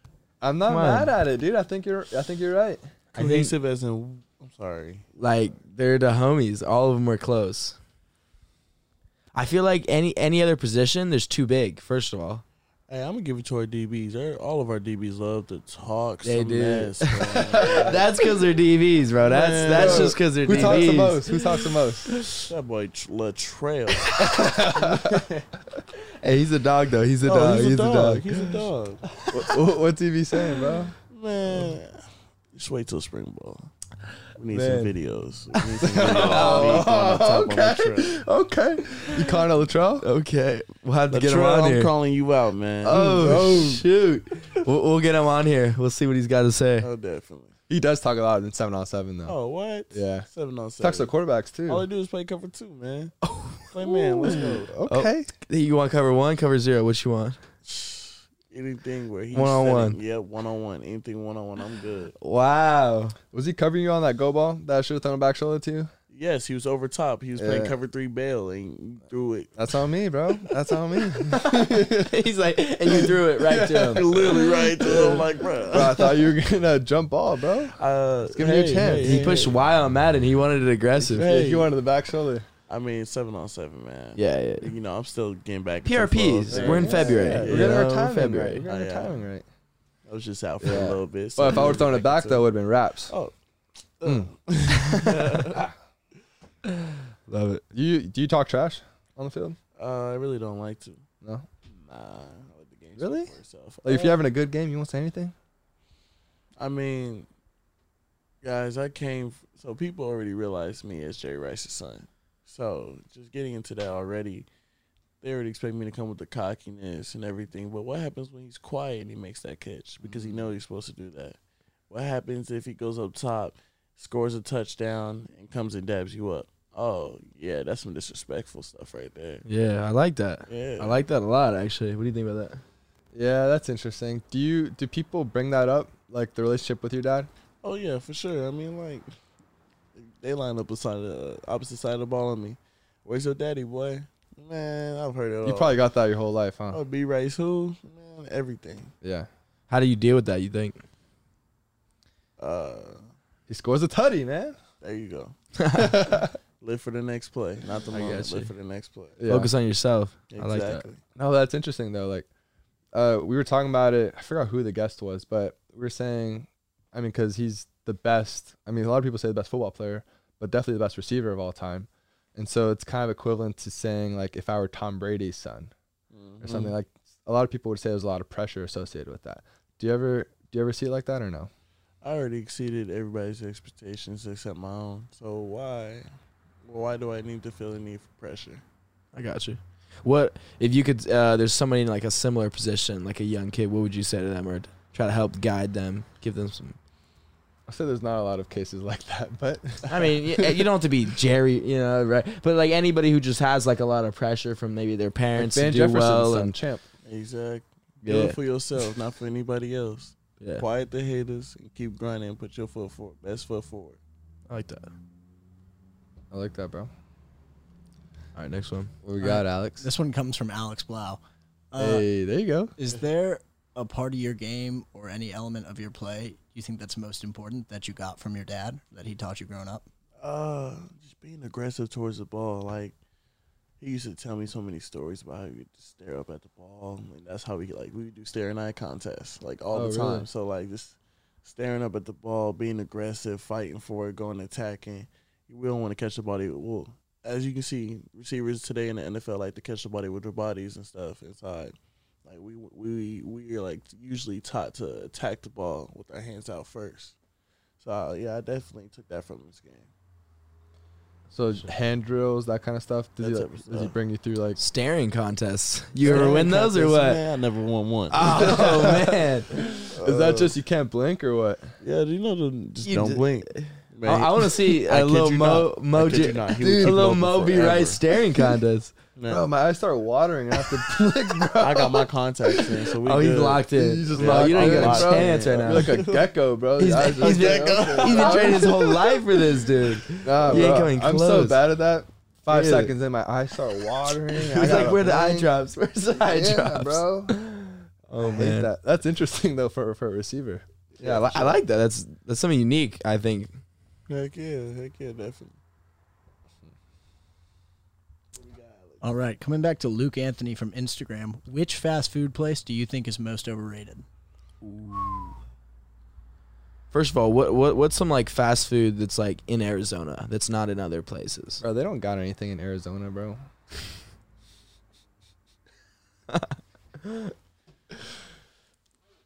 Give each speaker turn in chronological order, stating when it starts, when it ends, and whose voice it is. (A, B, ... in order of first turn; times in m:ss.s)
0:00.4-0:02.9 A
0:00.7-0:01.1 B
0:03.1-0:03.5 B
0:03.1-0:05.1 C
0:05.2-0:07.8 B
0:09.3-0:12.4 B
0:12.9-0:18.1 C
0:16.2-0:21.4 B
0:17.5-0:18.0 A
0:19.2-0:20.9 C
0:19.7-0:22.1 A
0:22.0-0:22.5 B
0:22.4-0:24.2 C
0:24.1-0:25.3 B
0:24.2-0:25.4 A
0:26.2-0:28.4 B
0:27.2-0:29.1 C
0:29.3-0:30.9 A
0:29.3-0:29.5 B
0:31.1-0:33.7 C
0:34.4-0:38.2 C
0:34.5-0:34.9 A
0:35.8-0:40.1 A
0:35.9-0:36.8 B
0:40.0-0:41.9 B
0:41.1-0:43.5 C
0:42.8-0:46.9 B
0:42.9-0:43.8 A
0:46.8-0:47.5 C
0:47.7-0:49.4 A
0:49.2-0:51.1 C
0:49.9-0:50.3 A
0:50.8-0:51.8 A
0:51.7-0:53.1 C
0:53.2-0:57.4 B
0:53.7-0:54.7 C
0:53.9-0:55.3 A
0:57.6-1:02.1 C
0:59.3-1:00.0 B
1:02.2-1:03.2 B
1:03.3-1:05.9 A
1:06.1-1:09.7 C
1:07.4-1:07.7 A
1:09.6-1:12.1 A
1:11.3-1:14.1 B
1:12.8-1:17.8 A
1:13.9-1:16.2 C
1:17.8-1:19.6 C
1:18.3-1:19.3 A
1:19.0-1:21.3 B
1:21.0-1:21.7 C
1:21.2-1:22.5 A
1:22.7-1:27.8 C
1:24.2-1:24.7 B
1:25.8-1:28.6 B
1:26.5-1:29.4 A
1:28.6-1:29.2 C
1:30.1-1:32.5 C
1:30.6-1:33.1 A
1:33.1-1:33.3 C
1:34.0-1:35.7 C
1:34.0-1:34.3 A
1:34.7-1:35.4 B
1:36.6-1:37.6 B
1:37.7-1:39.6 A
1:39.8-1:41.0 C
1:41.2-1:41.5 A
1:41.7-1:44.2 C
1:43.0-1:43.3 A
1:43.8-1:45.3 A
1:46.6-1:47.3 C
1:48.4-1:54.5 C
1:55.2-2:01.4 C
2:01.9-2:09.4 C
2:09.4-2:12.6 B
2:10.5-2:11.0 C
2:13.1-2:17.3 A
2:17.6-2:19.1 C
2:19.9-2:25.8 C
2:25.4-2:26.8 A
2:26.7-2:28.9 C
2:29.0-2:29.3 A
2:29.7-2:30.8 B
2:32.4-2:33.1 C
2:33.5-2:34.6 A
2:34.8-2:35.3 C
2:35.6-2:36.0 B
2:35.7-2:36.4 A
2:36.6-2:39.2 C
2:37.9-2:38.5 B
2:39.2-2:39.5 A
2:39.3-2:40.9 B
2:40.3-2:41.0 C
2:41.2-2:42.3 A
2:42.9-2:55.7 A
2:56.1-2:56.7 C
2:56.4-3:01.5 A
3:02.0-3:06.1 C
3:06.6-3:08.6 C
3:09.1-3:16.8 B
3:17.7-3:20.7 A
3:19.9-3:26.6 B
3:25.4-3:26.8 A
3:27.0-3:34.0 C
3:28.0-3:28.4 B
3:30.4-3:30.6 B
3:34.5-3:34.9 B
3:36.3-3:36.9 A
3:38.3-3:38.9 B
3:39.0-3:39.9 A
3:39.2-3:41.2 D
3:41.7-3:42.0 D
3:41.8-3:42.7 A
3:42.8-3:49.9 D
3:50.2-3:53.0 C
3:53.8-4:11.7 C
3:59.7-4:00.3 A
4:12.2-4:17.1 C
4:17.8-4:19.9 C
4:21.3-4:24.6 A
4:23.2-4:23.9 C
4:24.6-4:27.2 B
4:26.0-4:28.9 C
4:26.0-4:26.4 A
4:28.1-4:29.5 B
4:28.3-4:31.7 A
4:29.9-4:30.5 C
4:31.8-4:38.0 C
4:32.8-4:38.9 B
4:36.6-4:37.0 A
4:39.2-4:39.4 C
4:39.3-4:42.8 A
4:41.6-4:46.3 C
4:43.0-4:46.0 B
4:43.7-4:49.0 A
4:46.8-4:51.6 B
4:47.0-4:49.2 C
4:50.2-4:55.5 A
4:52.5-4:52.9 B
4:54.3-4:58.7 B
4:56.2-4:57.3 A
4:58.2-5:01.5 A
5:01.0-5:01.5 C
5:01.0-5:03.5 B
5:04.1-5:05.6 C
5:08.3-5:09.0 C
5:09.0-5:14.0 D
5:14.7-5:15.3 B
5:16.9-5:21.6 B
5:21.6-5:23.4 A